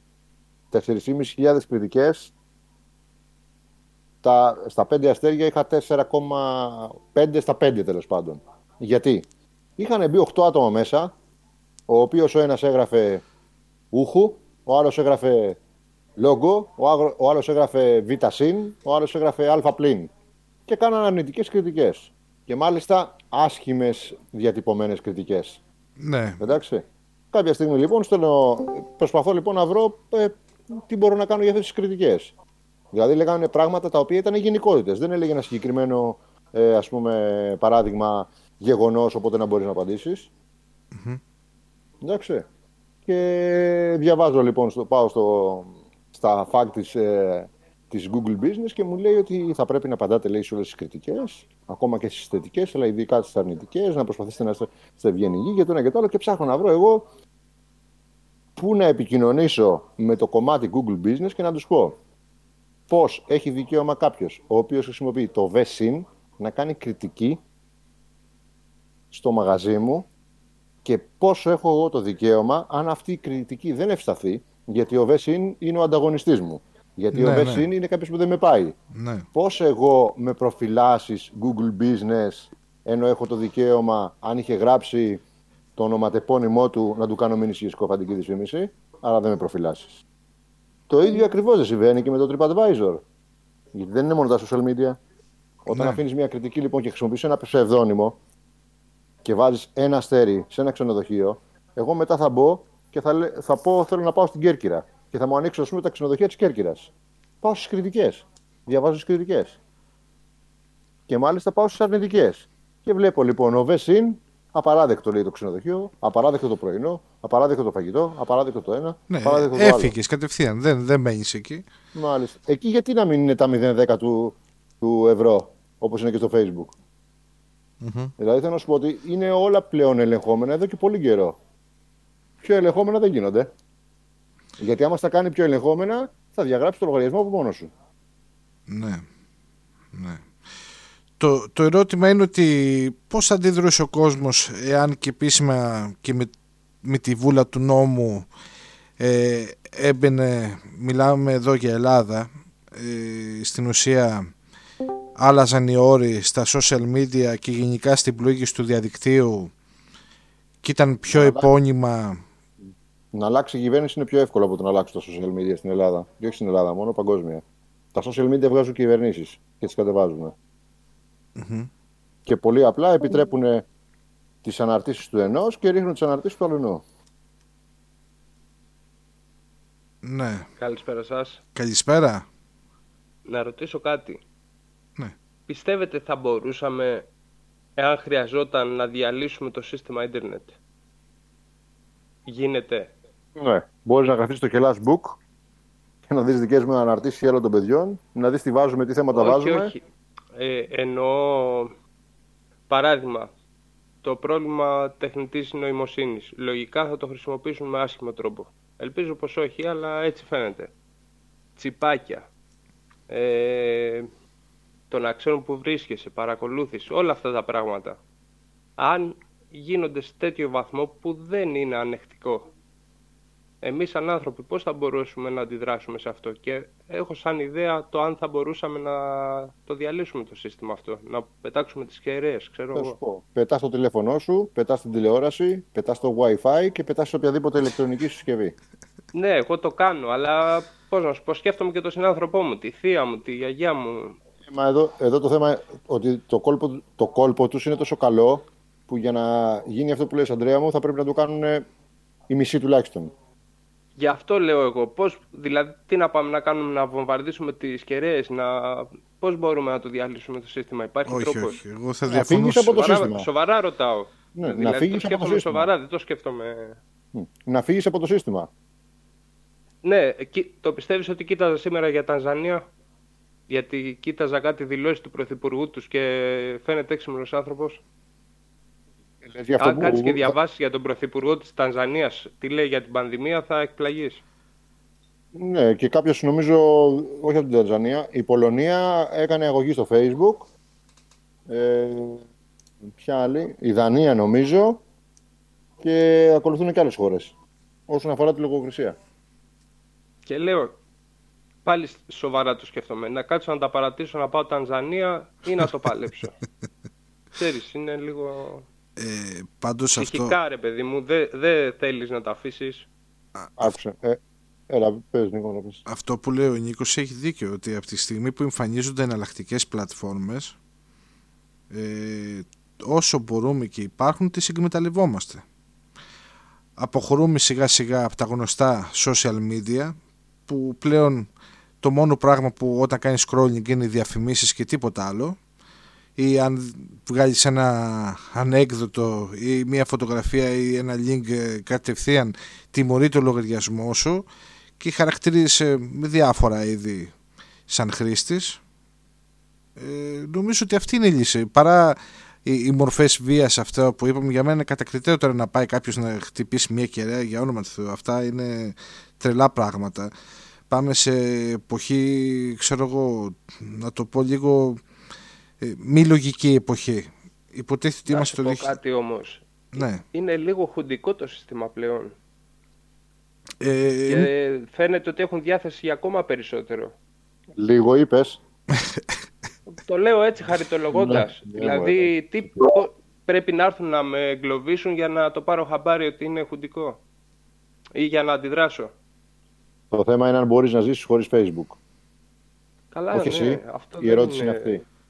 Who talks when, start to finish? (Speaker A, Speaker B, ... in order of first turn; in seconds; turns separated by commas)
Speaker A: 0.7-2.3, Speaker A: 4.2-9.2, Speaker A: 9.8-11.1, Speaker A: 11.9-13.2, Speaker A: 13.9-15.6, Speaker A: 16.2-20.1, Speaker A: 20.7-25.6, Speaker B: 26.0-26.4, Speaker A: 26.4-32.3, Speaker A: 32.9-40.3, Speaker B: 40.9-41.2, Speaker A: 42.0-42.5, Speaker A: 43.1-57.1, Speaker A: 58.6-62.0, Speaker A: 62.9-67.4, Speaker A: 69.1-70.1, Speaker A: 70.8-78.8, Speaker B: 77.1-77.7, Speaker B: 78.9-79.3, Speaker A: 79.3-85.2, Speaker A: 85.8-90.0, Speaker A: 90.9-93.0, Speaker A: 93.7-95.0, Speaker A: 95.7-98.2, Speaker B: 95.7-96.0, Speaker A: 99.2-106.9, Speaker A: 107.4-109.6, Speaker A: 111.1-119.9, Speaker B: 119.1-121.6, Speaker A: 122.0-126.8, Speaker B: 127.8-128.1, Speaker A: 128.2-131.4, Speaker A: 132.4-133.5, Speaker A: 134.6-137.7, Speaker B: 138.7-139.1, Speaker B: 139.9-140.3, Speaker B: 141.2-146.3, Speaker B: 146.8-148.3, Speaker B: 149.0-154.3, Speaker B: 155.2-159.5, Speaker B: 160.6-162.2, Speaker A: 161.1-161.5, Speaker A: 163.1-167.4, Speaker A: 167.9-170.3, Speaker B: 171.4-171.7, Speaker A: 172.3-173.7, Speaker A: 174.4-176.8, Speaker B: 180.0-180.5, Speaker C: 180.6-181.4, Speaker B: 181.6-182.3, Speaker C: 183.3-184.2, Speaker C: 185.5-187.1, Speaker C: 187.8-190.6, Speaker C: 192.3-192.9, Speaker A: 193.4-195.2, Speaker A: 196.1-199.7, Speaker C: 199.1-199.8, Speaker C: 200.4-201.7, Speaker C: 202.7-203.3, Speaker C: 204.0-210.7, Speaker C: 211.6-212.3, Speaker C: 213.1-214.1, Speaker C: 214.9-218.0, Speaker C: 218.8-222.5, Speaker C: 223.6-233.0, Speaker A: 232.7-238.6, Speaker C: 239.1-244.2, Speaker A: 244.5-251.7, Speaker A: 252.3-253.1, Speaker C: 254.0-261.6, Speaker B: 261.1-262.9, Speaker A: 262.1-263.3, Speaker C: 262.7-266.8, Speaker A: 264.4-265.7, Speaker A: 267.1-268.5, Speaker C: 269.8-272.6, Speaker C: 273.5-277.8, Speaker A: 279.2-280.4, Speaker C: 279.6-284.2, Speaker A: 285.4-290.5, Speaker A: 291.5-292.2, Speaker A: 292.8-294.8, Speaker A: 295.8-297.3, Speaker A: 297.9-299.0, Speaker C: 300.3-300.8, Speaker C: 301.6-306.4, Speaker C: 307.4-308.7, Speaker B: 309.0-310.3, Speaker C: 309.9-312.9, Speaker B: 313.4-313.8, Speaker A: 313.6-315.8, Speaker B: 315.9-320.6, Speaker B: 321.7-325.4, Speaker B: 326.8-330.0, Speaker B: 330.5-331.3, Speaker B: 331.8-335.4, Speaker B: 336.2-344.3, Speaker B: 344.8-347.1, Speaker B: 347.7-348.6, Speaker B: 349.8-360.1, Speaker B: 360.7-364.8, Speaker B: 365.6-368.8, Speaker C: 368.1-372.1, Speaker B: 369.7-370.0, Speaker B: 373.6-374.3, Speaker C: 374.1-376.9, Speaker A: 377.6-378.4, Speaker C: 379.7-387.0, Speaker A: 380.9-382.1, Speaker C: 388.0-388.9, Speaker A: 389.9-391.8, Speaker C: 392.9-394.8, Speaker A: 393.1-394.8